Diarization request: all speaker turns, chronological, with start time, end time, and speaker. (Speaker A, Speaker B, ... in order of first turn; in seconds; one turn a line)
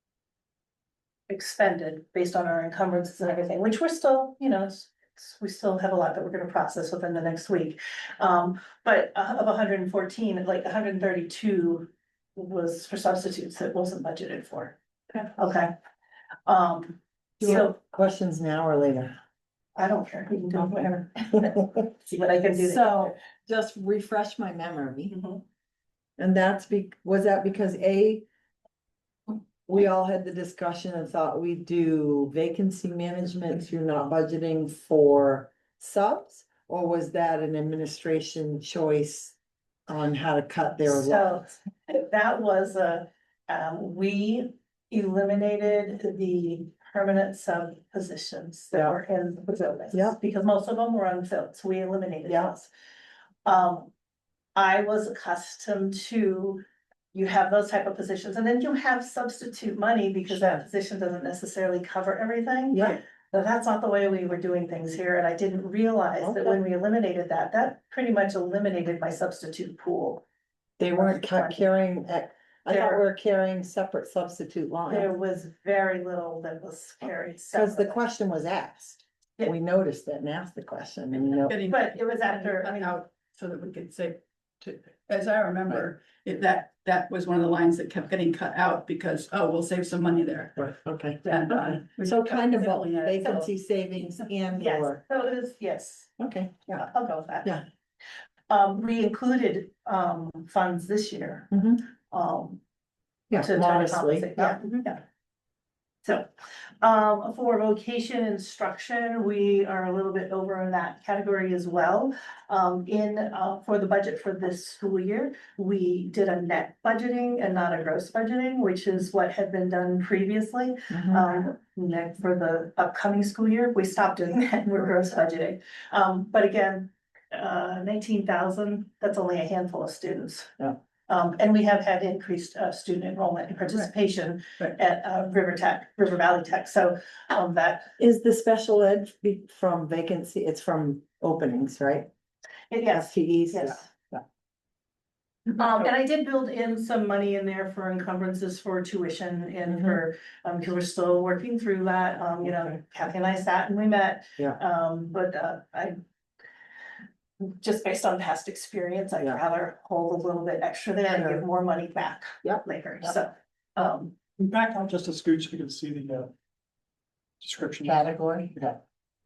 Speaker A: 1.3-15.7
Speaker A: 16.5-17.8
Speaker B: 17.4-19.2
Speaker A: 19.8-23.1
Speaker B: 21.3-21.6
Speaker B: 22.5-25.2
Speaker A: 25.1-25.4
Speaker B: 26.2-28.2
Speaker B: 29.3-39.4
Speaker B: 39.9-41.4
Speaker A: 40.9-52.7
Speaker B: 49.9-50.2
Speaker B: 52.3-52.5
Speaker A: 53.4-53.9
Speaker A: 54.5-70.2
Speaker B: 60.3-60.6
Speaker B: 62.7-63.0
Speaker B: 66.2-66.6
Speaker B: 70.8-75.1
Speaker A: 70.9-71.6
Speaker A: 72.7-73.0
Speaker A: 74.9-78.0
Speaker B: 77.5-81.6
Speaker C: 81.4-93.5
Speaker A: 81.7-83.0
Speaker B: 90.6-95.0
Speaker A: 94.5-96.1
Speaker B: 96.2-96.9
Speaker A: 96.7-97.6
Speaker A: 98.5-102.6
Speaker B: 101.5-101.8
Speaker B: 103.3-104.6
Speaker A: 103.3-105.0
Speaker A: 106.0-106.3
Speaker A: 106.8-137.9
Speaker B: 120.9-121.3
Speaker B: 138.0-142.1
Speaker A: 142.7-143.8
Speaker B: 142.9-144.2
Speaker A: 145.5-156.0
Speaker B: 149.7-150.0
Speaker A: 157.4-164.3
Speaker B: 161.1-161.4
Speaker D: 164.3-166.3
Speaker D: 167.4-168.0
Speaker B: 167.8-168.8